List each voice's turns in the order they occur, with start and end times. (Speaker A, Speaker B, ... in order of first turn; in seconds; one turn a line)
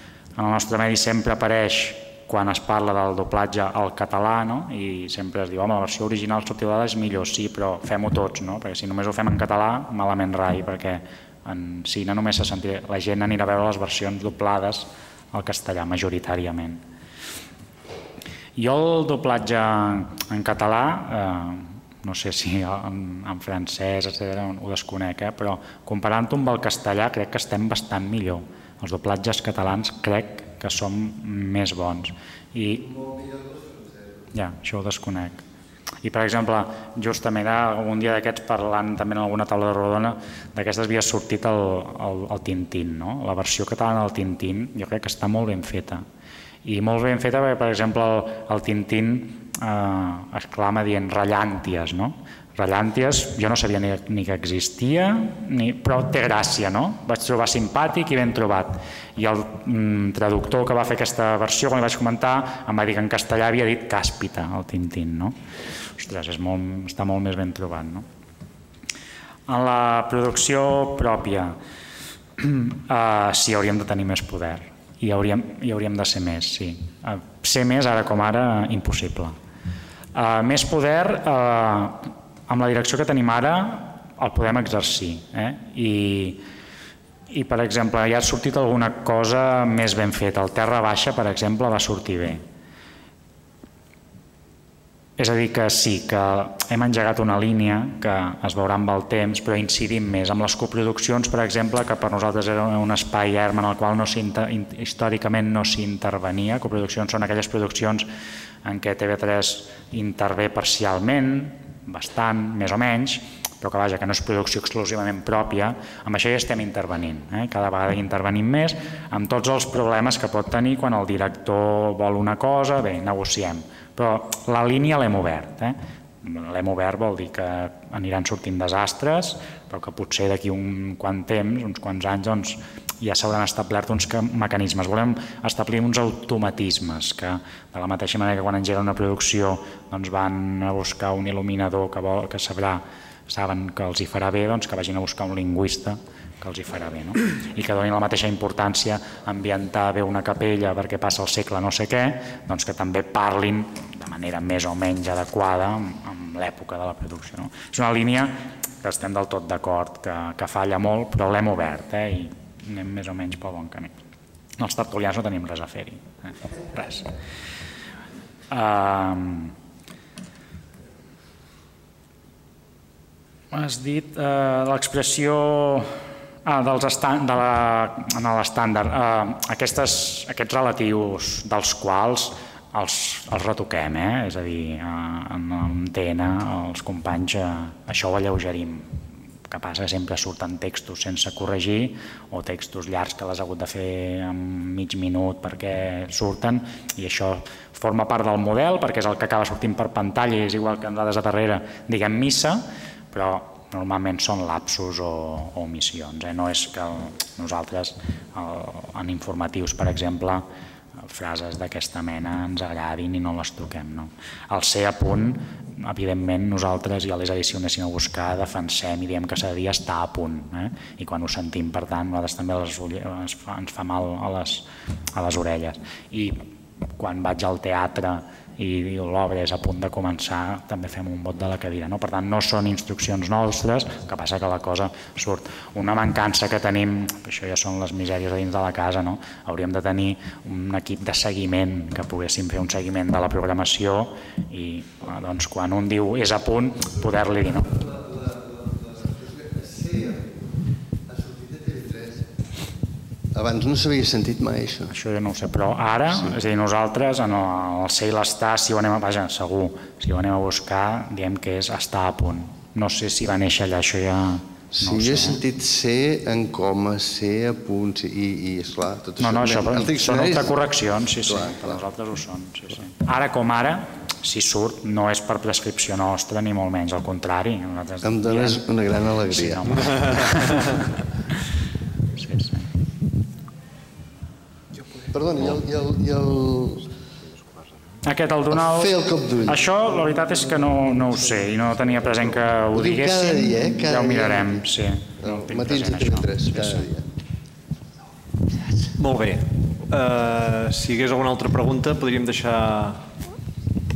Speaker A: 0.4-16.8
Speaker A: 18.6-32.9
Speaker B: 32.9-34.0
Speaker A: 34.3-35.4
Speaker A: 36.0-46.0
Speaker A: 46.6-65.3
Speaker A: 66.0-68.0
Speaker A: 69.5-71.6
Speaker A: 72.4-79.3
Speaker A: 80.1-86.4
Speaker A: 87.3-92.4
Speaker A: 95.2-108.1
Speaker A: 108.6-163.9
Speaker A: 164.6-167.1
Speaker A: 168.5-169.5
Speaker A: 173.5-188.9
Speaker A: 189.5-210.4
Speaker A: 211.0-226.4
Speaker A: 227.0-247.8
Speaker B: 247.8-250.4
Speaker B: 251.1-252.4
Speaker B: 253.3-254.9
Speaker A: 254.9-265.4
Speaker B: 264.7-271.8
Speaker A: 269.2-278.6
Speaker B: 278.0-280.6
Speaker A: 279.2-280.8
Speaker A: 282.2-282.6
Speaker B: 285.1-286.9
Speaker A: 288.0-296.9
Speaker B: 288.5-291.0
Speaker B: 292.7-294.6
Speaker B: 295.2-297.1
Speaker C: 298.9-303.1